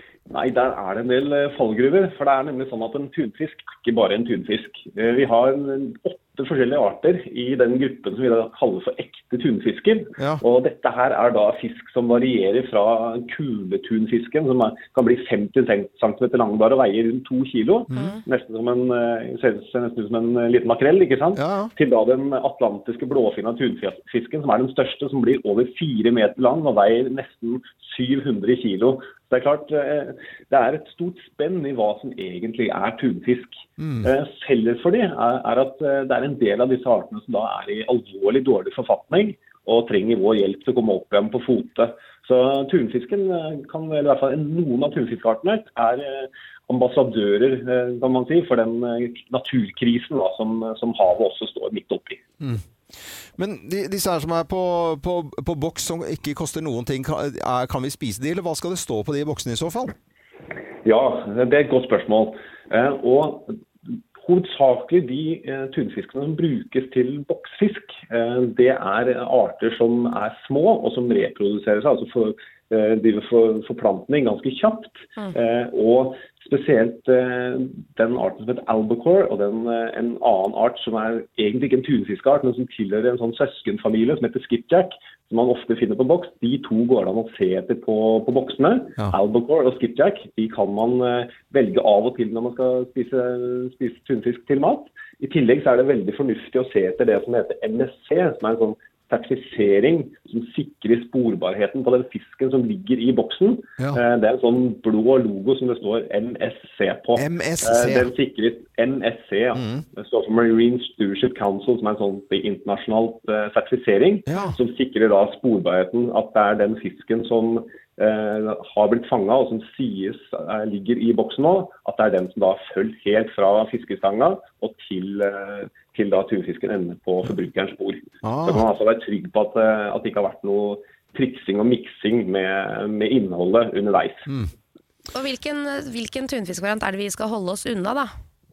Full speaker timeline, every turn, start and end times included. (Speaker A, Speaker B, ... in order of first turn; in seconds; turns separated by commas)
Speaker A: 0.3-52.2, Speaker B: 17.9-18.2, Speaker C: 21.3-21.7, Speaker C: 33.8-34.1, Speaker C: 53.4-60.0, Speaker A: 60.8-63.5, Speaker A: 64.2-134.3, Speaker C: 107.2-108.1, Speaker C: 109.5-109.8, Speaker C: 114.3-114.6, Speaker C: 128.2-128.6, Speaker B: 135.1-138.1